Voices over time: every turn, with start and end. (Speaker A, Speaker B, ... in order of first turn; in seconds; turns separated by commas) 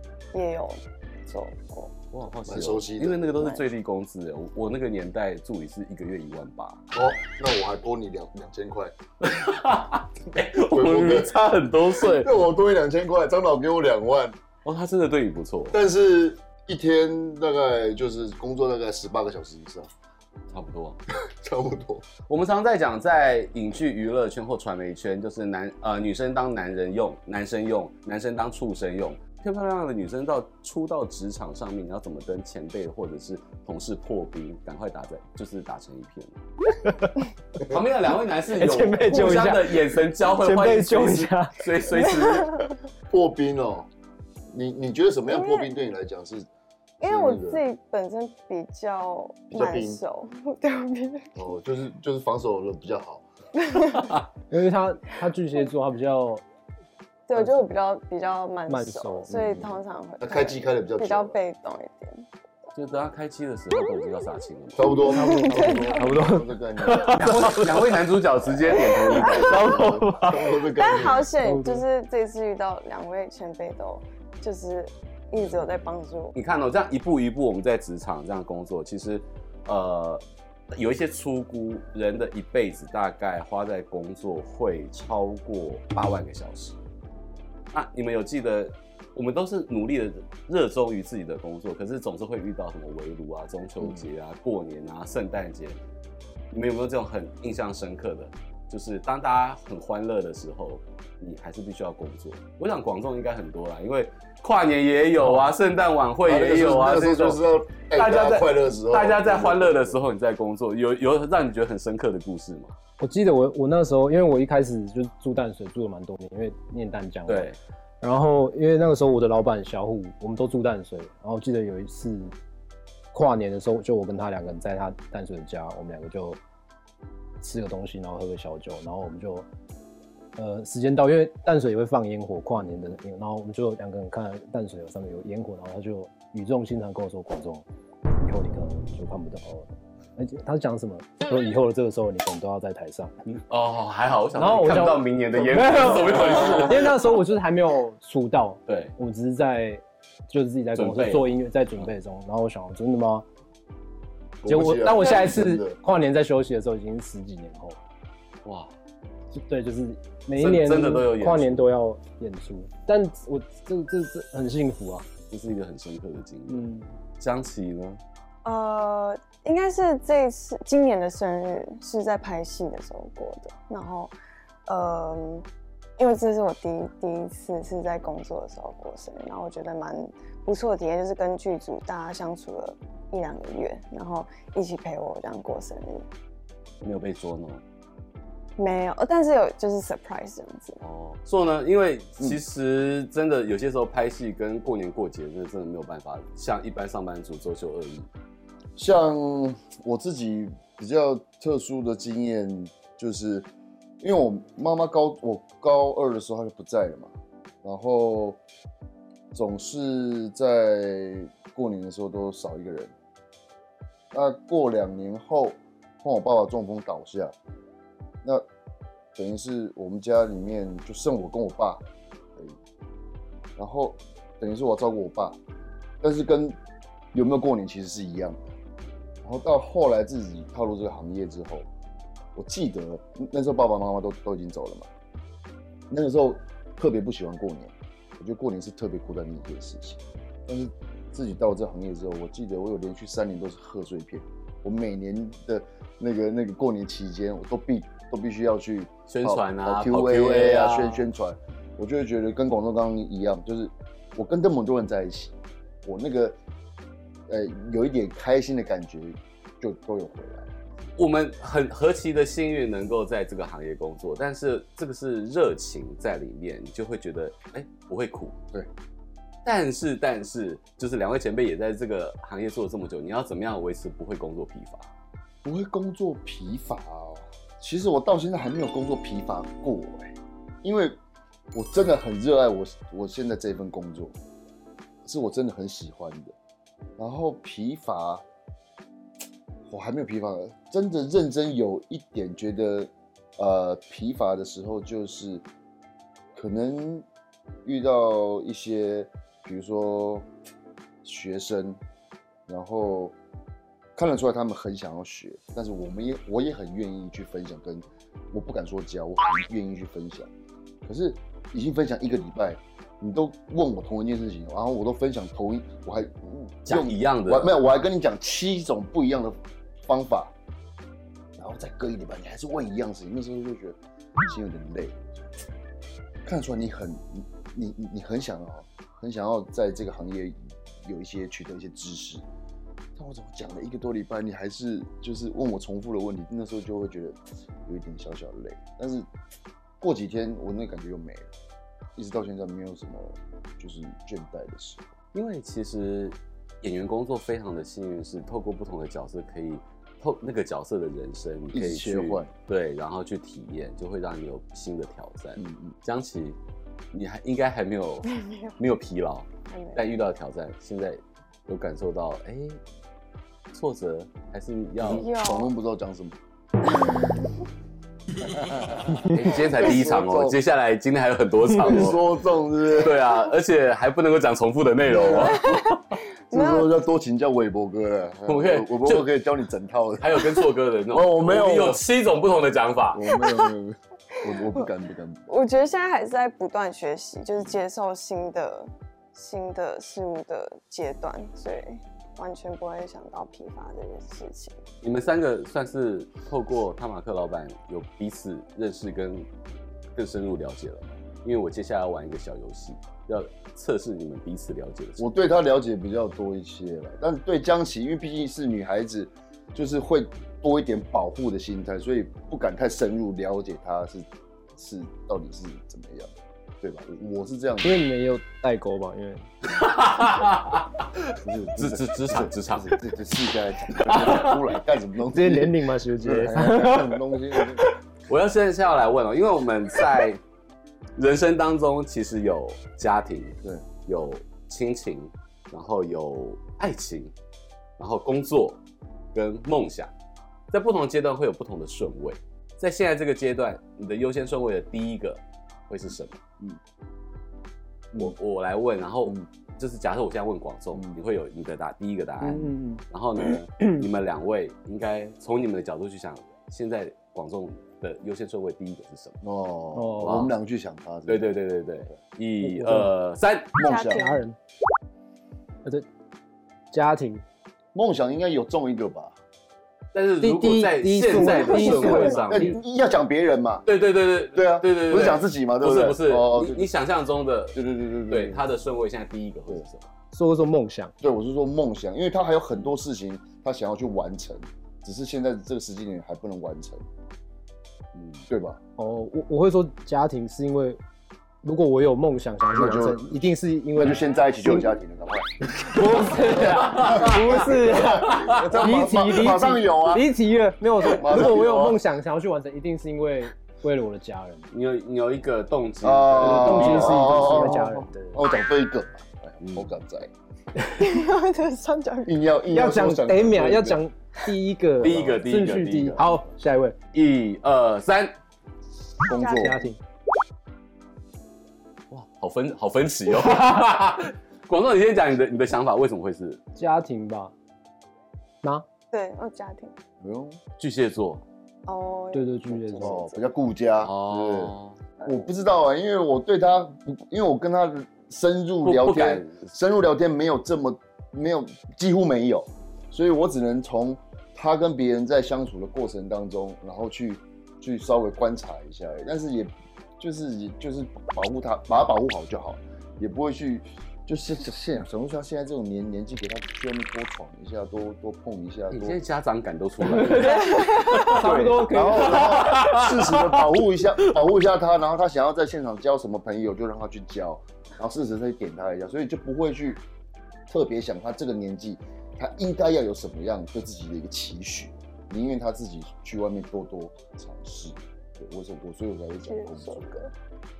Speaker A: 0.3-1.9, Speaker B: 2.1-6.8, Speaker C: 2.5-3.3, Speaker C: 6.9-8.9, Speaker B: 9.2-12.3, Speaker C: 10.6-11.3, Speaker C: 11.9-14.4, Speaker B: 14.6-15.8, Speaker C: 15.7-19.9, Speaker B: 20.5-21.0, Speaker C: 21.2-22.1, Speaker B: 22.3-36.4, Speaker D: 36.8-37.2, Speaker B: 37.6-42.7, Speaker D: 38.5-41.6, Speaker A: 41.9-42.7, Speaker C: 43.1-43.9, Speaker C: 44.5-46.5, Speaker A: 45.3-45.7, Speaker A: 47.0-51.5, Speaker C: 47.0-47.6, Speaker C: 49.5-50.0, Speaker C: 51.4-53.2, Speaker A: 53.6-54.2, Speaker D: 54.5-56.4, Speaker A: 57.3-62.3, Speaker D: 58.7-59.3, Speaker C: 59.3-61.4, Speaker B: 62.7-65.2, Speaker C: 64.8-67.5, Speaker D: 64.9-68.0, Speaker A: 65.0-66.1, Speaker B: 67.1-70.5, Speaker A: 69.0-69.6, Speaker C: 69.2-71.3, Speaker D: 69.3-70.3, Speaker A: 70.8-76.3, Speaker D: 71.4-71.8, Speaker B: 76.3-86.8, Speaker B: 87.7-95.8, Speaker B: 96.5-107.4, Speaker D: 105.2-105.5, Speaker C: 106.2-110.0, Speaker B: 107.9-112.7, Speaker D: 113.0-122.3, Speaker B: 117.3-117.6, Speaker D: 123.1-126.4, Speaker D: 127.4-129.5, Speaker D: 130.3-137.6, Speaker D: 138.2-143.1, Speaker B: 143.5-146.9, Speaker D: 144.3-153.2, Speaker B: 148.7-148.9, Speaker B: 150.7-151.9, Speaker C: 154.4-155.8, Speaker D: 154.5-157.8, Speaker B: 158.4-158.7, Speaker D: 159.3-165.1, Speaker B: 160.4-161.7, Speaker B: 165.3-166.7, Speaker D: 166.5-166.9, Speaker B: 167.2-168.0, Speaker A: 168.4-174.1, Speaker A: 174.7-175.4, Speaker A: 176.0-186.1, Speaker B: 186.8-187.6, Speaker A: 188.6-190.8, Speaker B: 190.8-198.1, Speaker C: 198.8-203.5, Speaker C: 204.0-208.4, Speaker C: 209.3-212.9, Speaker C: 214.1-217.3, Speaker C: 219.2-221.8, Speaker C: 223.6-225.4, Speaker C: 226.0-226.6, Speaker C: 227.1-228.5, Speaker C: 229.2-231.7, Speaker C: 232.3-234.9, Speaker C: 235.9-255.3, Speaker B: 249.1-251.1, Speaker C: 255.8-256.4, Speaker C: 257.3-260.5, Speaker B: 261.0-268.4, Speaker B: 269.4-274.9, Speaker C: 275.4-281.0, Speaker C: 281.5-284.1, Speaker C: 285.0-286.3, Speaker C: 287.0-288.2, Speaker C: 289.7-295.4, Speaker C: 296.3-297.1, Speaker C: 297.6-300.3, Speaker C: 301.0-301.8, Speaker C: 302.5-303.1, Speaker C: 303.9-310.3, Speaker C: 310.8-320.3, Speaker B: 316.6-317.6, Speaker C: 321.4-325.0, Speaker C: 326.2-332.2, Speaker C: 332.9-339.1, Speaker C: 339.8-341.3, Speaker C: 341.9-344.9, Speaker B: 345.1-356.4, Speaker C: 351.5-352.3, Speaker C: 355.4-355.7, Speaker B: 356.9-362.6, Speaker A: 359.5-359.8, Speaker B: 363.5-365.1, Speaker C: 364.8-366.1, Speaker A: 364.8-365.5, Speaker C: 368.2-370.4, Speaker B: 369.1-372.1, Speaker C: 371.6-373.1, Speaker B: 372.7-375.8, Speaker C: 374.9-375.6, Speaker A: 375.1-376.7, Speaker C: 376.3-381.8, Speaker B: 378.3-379.1, Speaker B: 380.0-383.1, Speaker C: 382.9-385.3, Speaker A: 383.2-383.5, Speaker A: 384.2-384.7, Speaker A: 385.3-394.6, Speaker B: 394.8-399.3, Speaker B: 399.9-405.1, Speaker C: 405.0-417.8, Speaker D: 417.6-419.3, Speaker B: 419.5-422.8, Speaker C: 421.2-427.7, Speaker B: 423.9-424.4, Speaker D: 425.1-427.0, Speaker B: 428.1-430.2, Speaker B: 430.9-437.1, Speaker B: 437.8-438.6, Speaker B: 439.1-439.9, Speaker B: 440.5-446.2, Speaker B: 447.9-459.2, Speaker D: 452.2-452.8, Speaker C: 459.2-461.2, Speaker D: 459.7-460.2, Speaker B: 460.0-460.3, Speaker B: 461.1-463.5, Speaker D: 462.4-462.9, Speaker C: 463.6-464.0, Speaker A: 463.6-464.2, Speaker D: 463.9-464.4, Speaker D: 466.7-467.2, Speaker C: 467.7-469.1, Speaker B: 469.9-472.6, Speaker D: 470.2-472.6, Speaker A: 471.4-472.1, Speaker C: 471.6-473.6, Speaker B: 473.6-479.9, Speaker C: 474.3-476.7, Speaker C: 477.5-478.4, Speaker D: 480.1-480.9, Speaker C: 481.0-486.8, Speaker B: 487.9-488.2, Speaker C: 488.3-488.6, Speaker D: 488.8-490.8, Speaker D: 491.4-494.7, Speaker C: 492.5-493.1, Speaker C: 493.8-500.1, Speaker D: 495.6-504.5, Speaker B: 496.4-498.7, Speaker C: 500.8-501.8, Speaker B: 504.5-507.6, Speaker C: 505.8-510.1, Speaker D: 506.2-508.2, Speaker B: 509.4-509.7, Speaker A: 510.8-512.1, Speaker C: 512.0-513.8, Speaker D: 512.5-516.8, Speaker B: 514.8-516.0, Speaker B: 516.9-518.1, Speaker C: 519.0-519.6, Speaker A: 519.2-519.6, Speaker D: 519.2-519.8, Speaker B: 521.9-526.4, Speaker D: 526.5-527.3, Speaker A: 528.9-529.7, Speaker C: 530.0-530.4, Speaker B: 530.6-531.2, Speaker A: 531.6-533.2, Speaker D: 532.1-533.0, Speaker C: 532.8-559.0, Speaker B: 533.8-534.8, Speaker B: 538.6-539.5, Speaker B: 558.7-564.1, Speaker D: 559.8-562.5, Speaker A: 560.4-561.2, Speaker C: 561.7-569.8, Speaker C: 570.5-580.0, Speaker A: 579.2-580.1